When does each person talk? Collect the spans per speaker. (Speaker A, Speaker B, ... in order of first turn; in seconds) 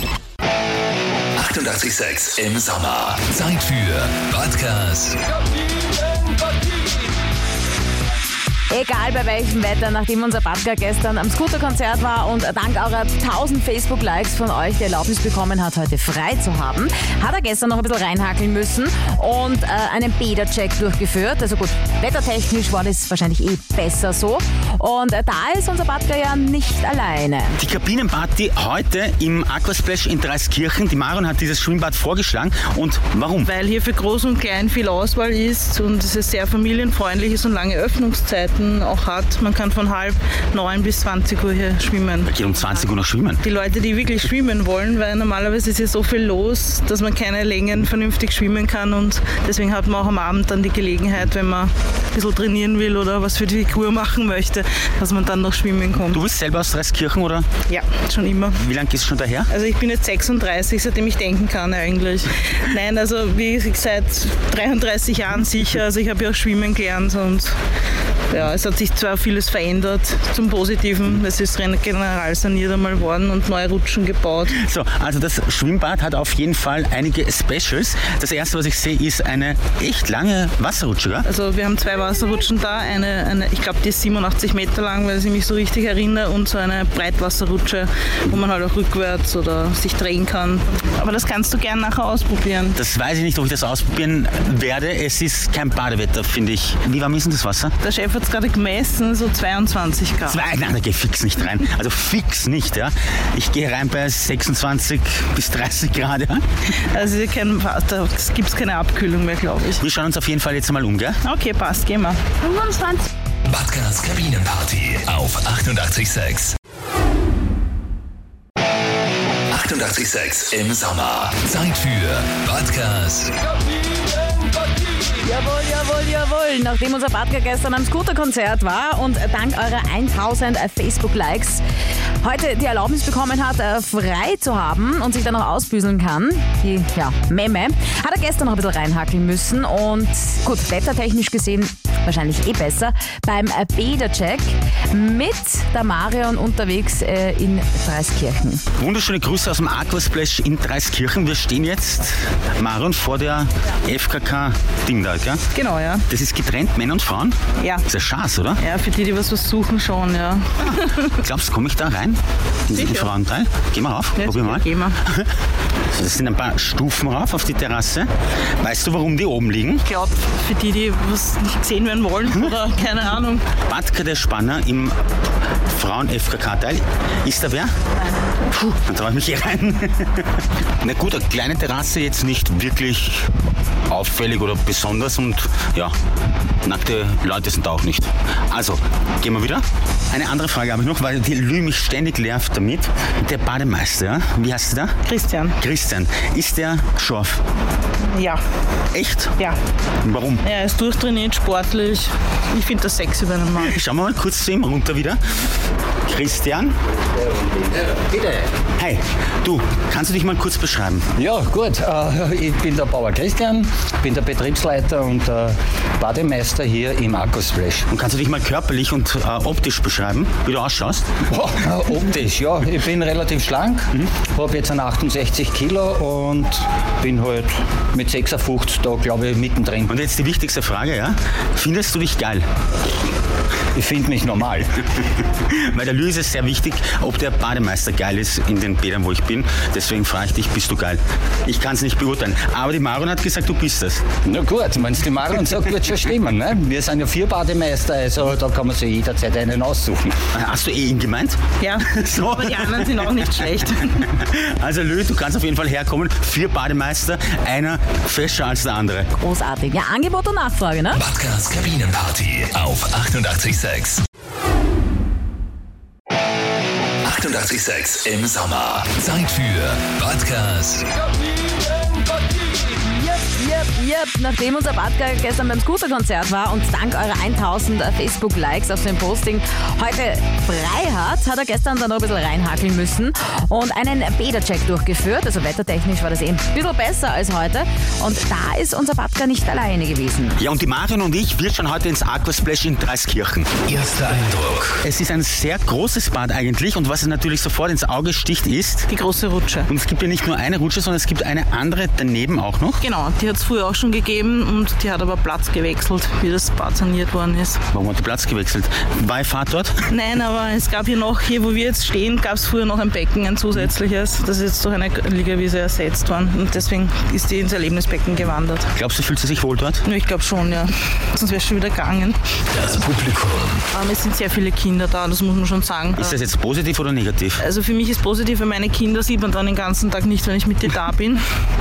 Speaker A: 1.4-5.2, 113.5-116.5, 119.5-123.3, 260.9-264.0, 267.0-270.9, 293.7-294.8, 322.5-323.6
Speaker B: 8.7-27.6, 125.2-131.6, 132.2-148.6, 259.2-261.0, 272.8-290.4
Speaker C: 27.6-33.5, 42.2-43.4, 56.1-57.5, 58.6-59.5, 74.5-81.3, 92.8-97.7, 100.3-106.4, 109.8-111.2, 148.8-155.4, 156.1-158.6, 161.2-165.3, 165.9-168.1, 168.6-169.8, 173.7-174.9, 175.7-177.7, 178.5-183.3, 183.9-185.9, 186.6-194.9, 195.6-197.4, 198.9-199.3, 200.0-200.4, 203.6-205.2, 206.1-206.7, 208.8-211.1, 217.9-221.1, 229.9-232.4, 235.5-244.1, 250.3-253.3, 254.0-259.1, 290.4-293.6, 294.8-298.9, 299.7-302.8, 307.7-309.8, 318.7-319.8, 325.9-327.4
Speaker D: 33.4-42.8, 43.4-56.2, 57.7-58.6, 59.5-67.5, 68.3-74.6, 81.2-92.8, 97.8-100.4, 106.9-109.8, 111.2-113.0, 155.5-156.0, 157.6-157.8, 158.6-161.1, 162.7-163.1, 164.2-165.0, 169.8-173.4, 195.1-195.6, 198.1-198.4, 200.4-203.7, 251.6-254.0, 298.9-299.7, 302.8-307.6, 309.9-318.7, 319.8-322.2, 323.7-326.2, 327.4-331.2
Speaker E: 207.3-208.5, 211.2-217.9, 221.3-229.9, 233.7-234.8, 244.2-250.2